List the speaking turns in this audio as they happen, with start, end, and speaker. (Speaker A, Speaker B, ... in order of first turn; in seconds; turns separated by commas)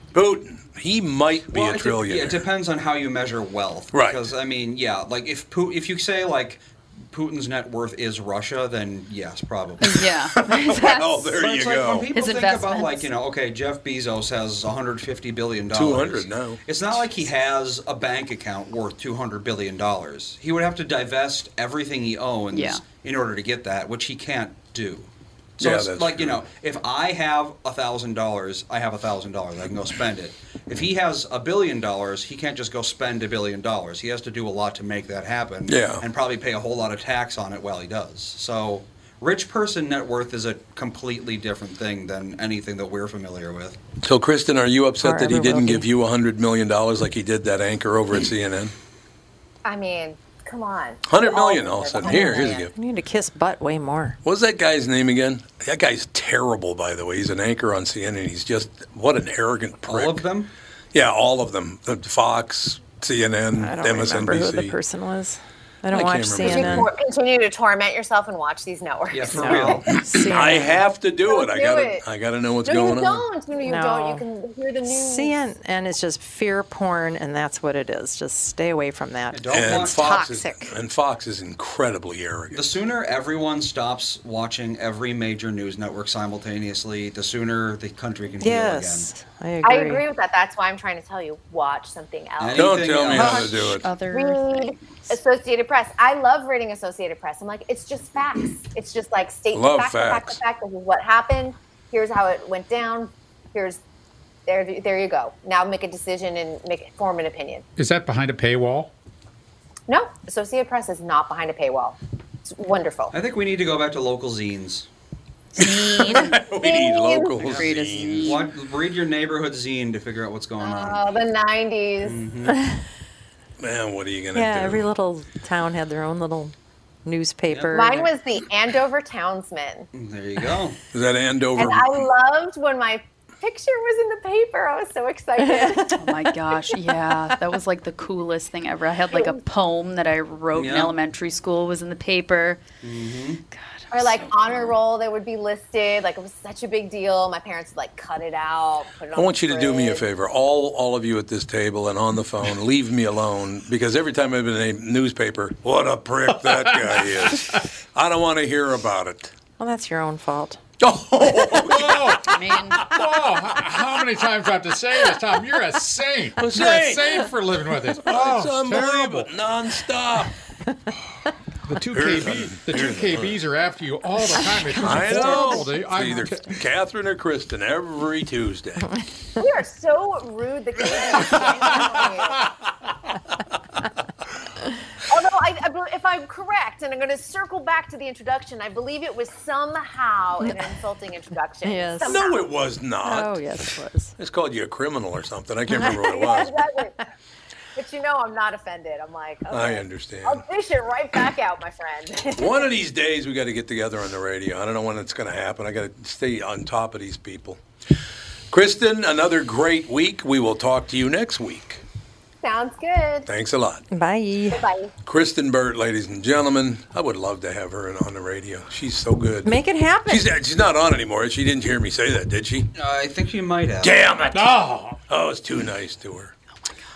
Speaker A: 0.1-2.4, Speaker B: 1.5-10.1, Speaker A: 3.9-4.2, Speaker C: 9.8-11.3, Speaker A: 10.4-12.1, Speaker B: 11.2-43.8, Speaker C: 12.1-13.1, Speaker A: 15.7-16.6, Speaker C: 22.5-22.8, Speaker A: 25.6-26.4, Speaker A: 35.6-36.0, Speaker A: 44.0-48.7, Speaker D: 45.0-45.9, Speaker E: 49.6-52.7, Speaker A: 51.1-52.7, Speaker D: 52.1-54.2, Speaker A: 54.2-60.2, Speaker B: 59.8-60.5, Speaker A: 60.9-64.8, Speaker D: 63.5-66.9, Speaker A: 65.9-66.9, Speaker E: 66.4-70.0, Speaker B: 69.1-70.0, Speaker D: 69.3-70.8, Speaker A: 70.2-73.2, Speaker E: 71.2-72.0, Speaker E: 72.6-75.4, Speaker D: 73.6-74.2, Speaker D: 74.8-80.7, Speaker B: 79.3-80.0, Speaker A: 79.5-82.7, Speaker B: 82.5-89.1, Speaker D: 88.4-90.0, Speaker E: 89.6-92.8, Speaker B: 92.4-93.7, Speaker A: 92.5-93.9, Speaker C: 93.1-94.7, Speaker E: 94.1-103.8, Speaker A: 99.5-100.4, Speaker E: 104.5-107.6, Speaker F: 107.8-108.9, Speaker E: 109.9-113.1, Speaker B: 113.1-114.9, Speaker C: 115.5-116.5, Speaker A: 115.5-118.4, Speaker E: 116.5-117.6, Speaker C: 117.4-118.4, Speaker B: 118.2-121.2, Speaker E: 120.6-122.2, Speaker B: 122.0-122.6, Speaker A: 123.6-124.9, Speaker D: 124.3-126.5, Speaker D: 127.0-128.1, Speaker E: 127.7-129.9, Speaker B: 129.9-130.8, Speaker A: 130.9-132.0, Speaker E: 131.6-136.0, Speaker D: 135.4-136.1, Speaker C: 135.9-142.6, Speaker E: 139.1-139.4, Speaker B: 140.5-140.9, Speaker B: 142.8-143.4, Speaker C: 143.5-144.7, Speaker E: 143.9-150.1, Speaker A: 149.1-159.3, Speaker F: 156.4-157.0, Speaker D: 159.6-160.6, Speaker A: 160.8-163.0, Speaker F: 161.6-169.3, Speaker C: 162.2-162.8, Speaker A: 166.4-167.3, Speaker A: 168.1-170.3, Speaker F: 171.7-176.5, Speaker A: 171.9-173.3, Speaker A: 174.8-178.9, Speaker D: 174.8-175.5, Speaker E: 179.4-182.5, Speaker E: 185.1-192.4, Speaker D: 191.6-192.4, Speaker A: 192.1-193.4, Speaker D: 193.0-194.1, Speaker A: 194.2-196.6, Speaker E: 195.8-197.1, Speaker E: 197.7-202.7, Speaker A: 199.5-200.4, Speaker A: 202.3-207.6, Speaker A: 208.5-211.8, Speaker E: 212.4-213.3, Speaker A: 213.2-213.8, Speaker D: 213.9-214.7, Speaker E: 214.5-214.9, Speaker A: 215.1-222.7, Speaker D: 219.4-220.3, Speaker B: 222.7-224.0, Speaker A: 223.8-226.3, Speaker F: 224.3-225.0